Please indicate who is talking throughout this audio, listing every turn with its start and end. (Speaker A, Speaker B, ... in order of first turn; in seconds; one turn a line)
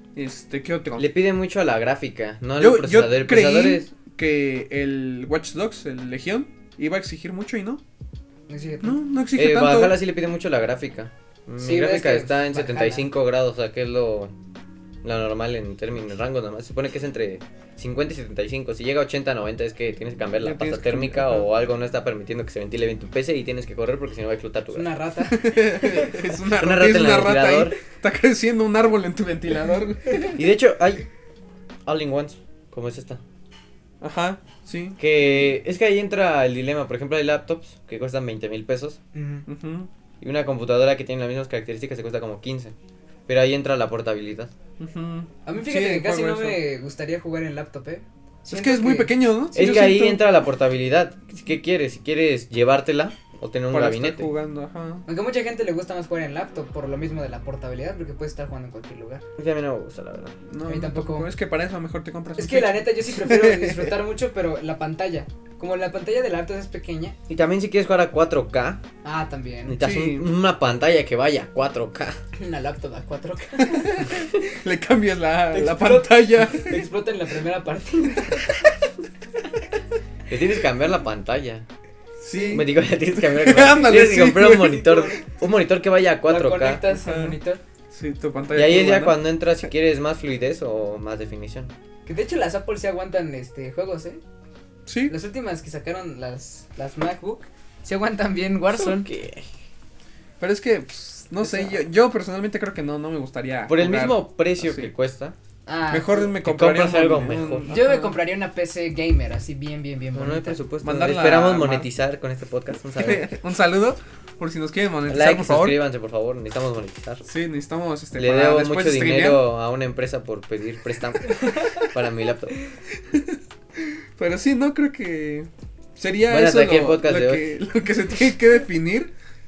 Speaker A: 0.1-1.1
Speaker B: 1.0-3.9
Speaker A: 2.6-7.8
Speaker C: 8.5-9.0
Speaker A: 8.8-10.0
Speaker B: 9.4-14.3
Speaker C: 11.6-13.1
Speaker B: 15.0-24.9
Speaker A: 20.4-21.5
Speaker C: 24.7-26.2
Speaker A: 25.3-30.4
Speaker B: 26.6-27.8
Speaker B: 30.4-31.1
Speaker B: 31.9-33.2
Speaker A: 34.0-35.5
Speaker B: 35.0-39.0
Speaker C: 39.1-39.5
Speaker A: 39.5-39.9
Speaker B: 40.2-42.7
Speaker B: 43.3-44.5
Speaker A: 44.8-46.6
Speaker C: 45.5-49.2
Speaker A: 48.5-50.2
Speaker B: 49.5-54.3
Speaker A: 53.7-55.0
Speaker C: 55.1-59.2
Speaker B: 59.4-60.4
Speaker A: 60.5-64.0
Speaker C: 60.7-61.3
Speaker C: 62.4-67.2
Speaker B: 67.3-68.8
Speaker C: 69.0-69.8
Speaker B: 69.7-72.2
Speaker A: 69.8-70.3
Speaker C: 72.3-74.2
Speaker A: 73.6-76.9
Speaker C: 75.5-78.6
Speaker B: 80.3-81.7
Speaker A: 82.2-85.1
Speaker B: 82.4-86.8
Speaker C: 86.3-87.6
Speaker A: 86.9-87.4
Speaker A: 87.9-89.2
Speaker B: 88.5-91.7
Speaker C: 92.1-94.2
Speaker A: 94.9-95.2
Speaker C: 95.1-99.0
Speaker B: 98.7-99.5
Speaker A: 100.4-104.9
Speaker B: 103.7-105.4
Speaker C: 105.7-106.3
Speaker A: 105.9-108.1
Speaker B: 106.4-107.8
Speaker C: 107.7-110.6
Speaker B: 110.1-113.2
Speaker A: 110.8-111.9
Speaker A: 113.0-115.8
Speaker B: 115.1-117.3
Speaker A: 117.3-119.4
Speaker B: 118.2-122.6
Speaker A: 123.0-129.1
Speaker B: 126.3-127.5